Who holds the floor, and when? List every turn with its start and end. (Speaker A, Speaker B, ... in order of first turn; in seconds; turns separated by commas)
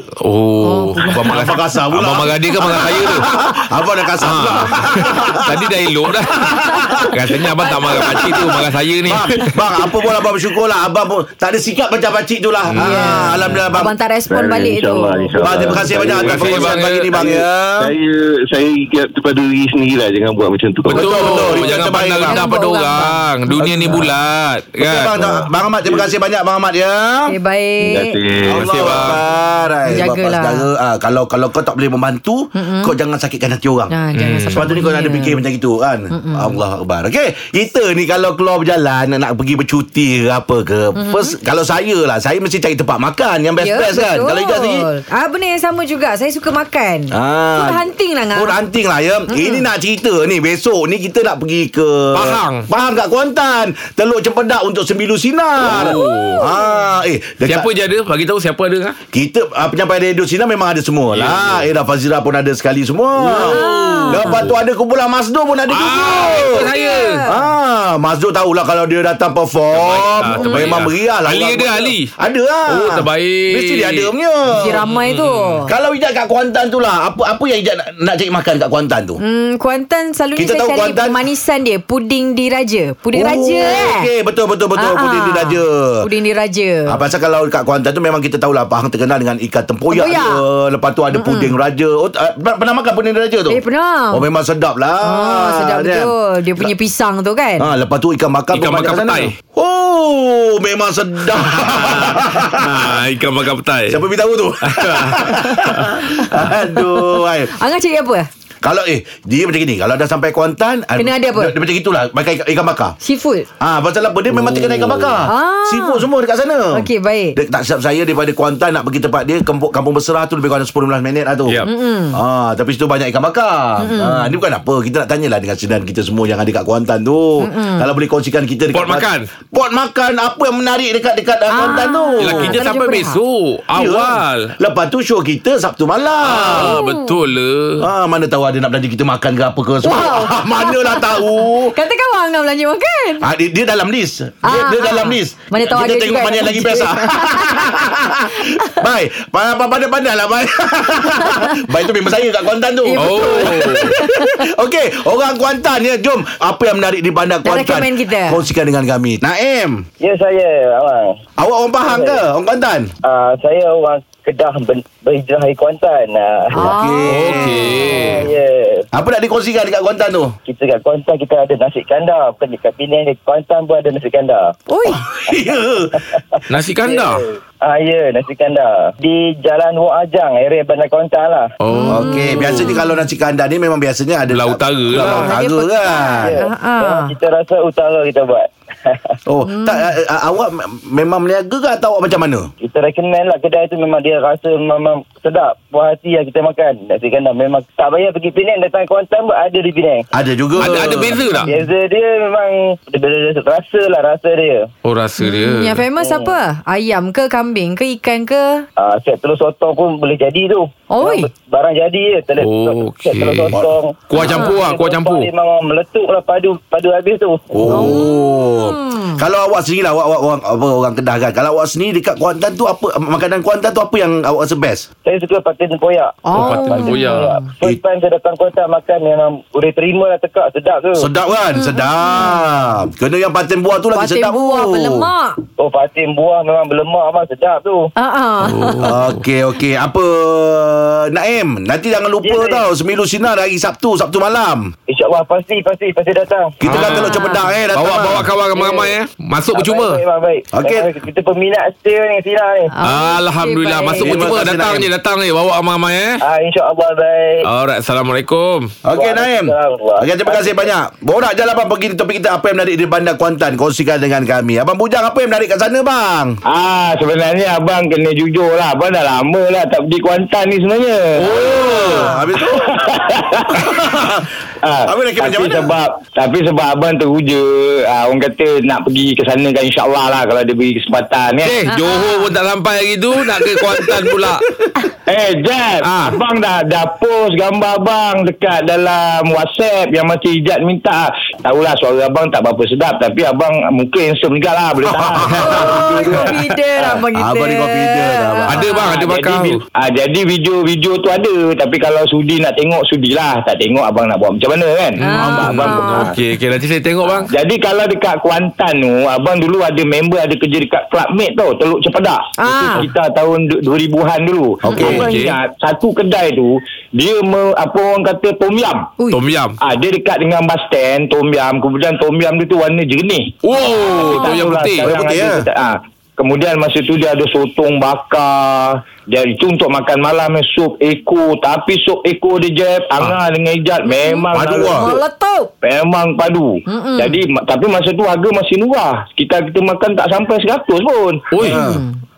Speaker A: 0.2-3.3, Speaker B: 0.6-1.1, Speaker C: 1.1-5.7, Speaker A: 4.2-6.4, Speaker C: 6.5-7.2, Speaker A: 7.1-9.5, Speaker C: 7.8-13.9, Speaker A: 12.7-13.6, Speaker B: 12.8-15.9, Speaker D: 14.3-21.7, Speaker C: 15.4-17.9, Speaker A: 16.1-17.1, Speaker A: 20.9-25.4, Speaker C: 20.9-22.4, Speaker B: 22.3-23.3, Speaker C: 23.6-24.1, Speaker C: 24.8-27.3, Speaker D: 25.8-26.1, Speaker B: 27.3-28.1, Speaker D: 27.8-29.1, Speaker C: 28.5-33.9, Speaker A: 28.5-29.2, Speaker B: 29.9-30.6, Speaker B: 32.5-32.9, Speaker B: 33.9-35.4, Speaker A: 34.1-34.7, Speaker C: 34.5-44.9, Speaker B: 36.1-36.6, Speaker B: 41.0-41.3, Speaker B: 43.6-48.6, Speaker C: 47.1-57.7, Speaker B: 49.3-49.7, Speaker A: 52.1-52.6, Speaker A: 55.6-56.4, Speaker B: 55.8-56.8, Speaker A: 57.5-59.0, Speaker C: 59.1-66.7, Speaker A: 61.1-61.7, Speaker A: 63.2-64.5, Speaker B: 63.4-64.5, Speaker A: 65.7-67.2, Speaker B: 66.2-67.4, Speaker C: 67.2-74.8, Speaker A: 69.7-72.1, Speaker A: 72.7-74.1, Speaker B: 74.5-75.7, Speaker A: 74.8-75.6, Speaker C: 75.7-79.2, Speaker B: 79.2-84.1, Speaker C: 80.3-81.2, Speaker C: 83.1-86.0, Speaker B: 84.8-86.9, Speaker C: 86.9-96.7, Speaker B: 89.9-90.4, Speaker B: 91.1-91.5, Speaker B: 93.5-94.2, Speaker B: 95.0-97.7, Speaker C: 97.6-103.0, Speaker A: 98.5-99.3, Speaker A: 101.3-104.0, Speaker C: 103.9-107.5, Speaker A: 104.6-105.9, Speaker B: 105.3-106.2, Speaker B: 106.8-108.3, Speaker C: 108.6-113.0, Speaker B: 111.0-111.6, Speaker B: 113.0-113.5, Speaker C: 113.6-132.5, Speaker A: 114.3-115.2, Speaker B: 115.3-116.0, Speaker B: 116.7-117.4, Speaker B: 121.6-122.2, Speaker B: 123.8-124.3, Speaker B: 127.4-127.8, Speaker A: 128.7-129.3, Speaker B: 131.5-133.2, Speaker A: 132.2-134.5, Speaker C: 133.7-136.8, Speaker A: 136.2-137.8, Speaker B: 136.5-137.2, Speaker C: 137.8-141.8, Speaker B: 139.8-143.2, Speaker C: 143.2-159.8, Speaker B: 144.4-147.7, Speaker B: 152.8-154.3, Speaker A: 152.9-153.9, Speaker B: 157.4-158.4, Speaker E: 160.0-161.2, Speaker C: 161.4-162.9, Speaker E: 161.8-162.2, Speaker E: 163.0-166.7, Speaker C: 166.5-167.9, Speaker B: 166.6-168.2, Speaker A: 167.1-168.3, Speaker E: 167.4-168.8, Speaker C: 168.9-170.3, Speaker E: 170.4-174.5, Speaker B: 174.7-175.0, Speaker C: 174.8-176.0, Speaker A: 176.5-177.2, Speaker E: 176.8-181.5, Speaker A: 181.6-182.8, Speaker B: 181.7-183.0, Speaker C: 181.9-186.4, Speaker A: 184.3-185.3, Speaker B: 184.9-187.1, Speaker E: 186.2-189.1, Speaker C: 189.3-192.5, Speaker B: 189.5-189.9, Speaker E: 192.6-200.1, Speaker C: 200.1-201.2, Speaker A: 200.6-201.5, Speaker E: 200.7-204.7, Speaker A: 204.8-205.8, Speaker B: 205.2-208.7, Speaker E: 206.0-206.3, Speaker E: 208.8-217.9, Speaker B: 210.9-211.3, Speaker A: 212.4-215.3, Speaker C: 213.5-214.5, Speaker C: 217.5-224.9, Speaker B: 217.7-219.2, Speaker E: 225.0-231.1, Speaker B: 226.2-227.5, Speaker A: 226.3-227.3, Speaker C: 230.9-235.1, Speaker B: 231.5-232.5, Speaker B: 233.9-235.4, Speaker E: 235.6-237.9, Speaker B: 238.0-238.9, Speaker A: 238.4-239.2, Speaker C: 238.8-244.7, Speaker E: 242.2-242.6, Speaker E: 244.9-246.5, Speaker C: 246.6-248.3, Speaker A: 246.6-250.0, Speaker B: 246.9-247.5, Speaker B: 248.6-248.9, Speaker E: 249.5-252.7, Speaker C: 250.5-250.9, Speaker B: 252.7-254.2, Speaker A: 252.8-256.2, Speaker C: 253.9-254.9, Speaker E: 256.2-257.4, Speaker A: 257.4-258.7, Speaker C: 258.8-266.4, Speaker E: 258.9-260.7, Speaker F: 266.4-271.3, Speaker A: 271.2-272.1, Speaker C: 271.3-272.6, Speaker F: 272.8-273.4, Speaker C: 273.6-274.3, Speaker F: 274.6-281.5, Speaker C: 274.9-275.7, Speaker A: 281.4-284.4, Speaker F: 285.1-296.3, Speaker A: 285.8-286.2, Speaker C: 294.9-295.6, Speaker B: 295.4-299.1, Speaker C: 297.1-298.6, Speaker A: 298.5-299.6, Speaker F: 298.9-305.9, Speaker B: 305.0-306.1, Speaker A: 305.0-307.3, Speaker F: 307.3-318.8, Speaker B: 312.4-312.9, Speaker C: 314.6-315.0, Speaker B: 314.7-315.1, Speaker A: 314.8-315.4, Speaker A: 319.1-319.6, Speaker F: 319.6-323.3, Speaker A: 323.4-324.9, Speaker B: 323.9-324.4, Speaker F: 324.1-334.8, Speaker C: 324.8-325.4, Speaker B: 333.9-335.5, Speaker C: 334.3-335.0, Speaker F: 335.6-341.2, Speaker B: 336.7-337.2, Speaker A: 341.3-341.6, Speaker C: 341.4-341.8, Speaker B: 341.5-342.0